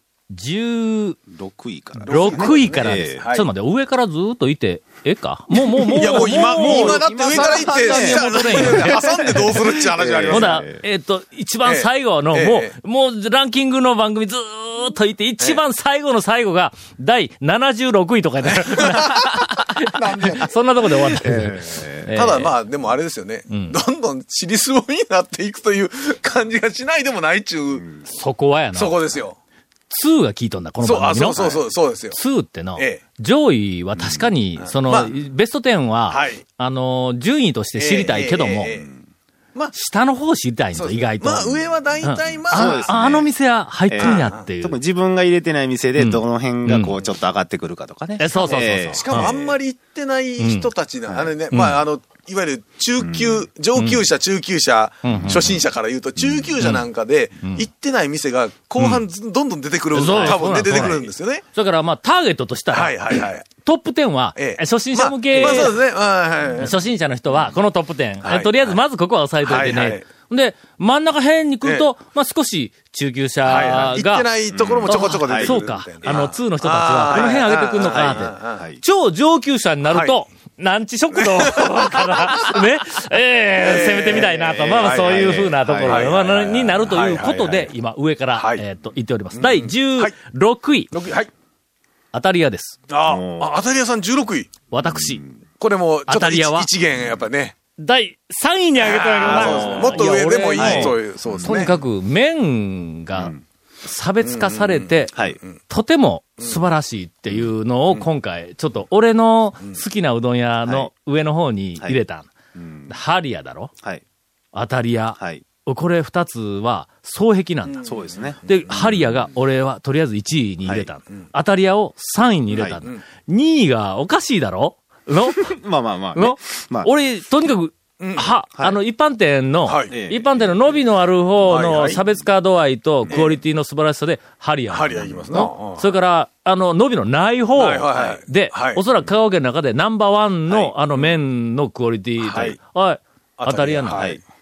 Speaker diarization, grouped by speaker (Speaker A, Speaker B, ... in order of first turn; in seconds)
Speaker A: 0.3-1.2, 2.0-9.3, 10.3-22.6, 23.5-23.8, 28.1-29.1, 29.9-38.8, 39.7-44.8, 46.0-47.0, 48.2-49.3, 50.4-50.7, 51.5-51.8, 53.8-54.0, 55.0-55.5, 59.9-65.8, 66.6-74.3, 74.8-90.9, 92.1-92.8, 94.7-95.2, 96.1-96.7, 97.8-103.3, 103.8-105.2, 105.7-112.3, 112.9-113.7, 114.5-117.8, 118.4-125.5, 126.1-144.2
Speaker B: 1.3-3.2, 5.9-10.8, 21.2-22.1, 27.8-28.1, 34.0-34.3, 42.5-43.3, 43.9-49.5, 53.0-53.5, 55.1-55.5, 56.2-56.5, 60.0-61.0, 65.3-65.7, 73.5-73.9, 74.5-76.4, 77.1-78.8, 84.1-87.0, 93.0-93.6, 94.8-95.4, 99.2-101.6, 103.1-103.4, 110.7-110.9, 112.5-112.9, 115.2-115.4, 117.8-118.4, 122.5-122.8, 125.4-126.9, 129.9-130.8, 131.8-132.0, 133.0-133.3, 142.3-142.6, 143.9-144.2
Speaker C: 2.1-3.5, 5.9-10.6, 11.6-12.7, 18.4-21.1, 22.1-27.9, 28.7-29.4, 30.8-32.2, 32.8-33.0, 34.6-35.1, 36.1-36.4, 37.7-38.9, 40.7-43.0, 44.0-44.5, 48.3-61.4, 62.7-63.5, 64.3-66.7, 68.2-68.8, 69.4-70.0, 73.4-78.6, 79.9-80.2, 81.1-82.5, 83.6-87.7, 88.3-88.6, 89.3-90.1, 90.9-91.3, 92.9-94.5, 95.6-97.5, 98.8-101.8, 104.2-105.6, 117.7-119.1, 128.0-128.3, 129.7-129.9, 131.4-132.0, 133.1-133.4, 134.7-136.0, 137.5-138.8, 140.5-141.2, 142.2-142.6, 143.4-144.2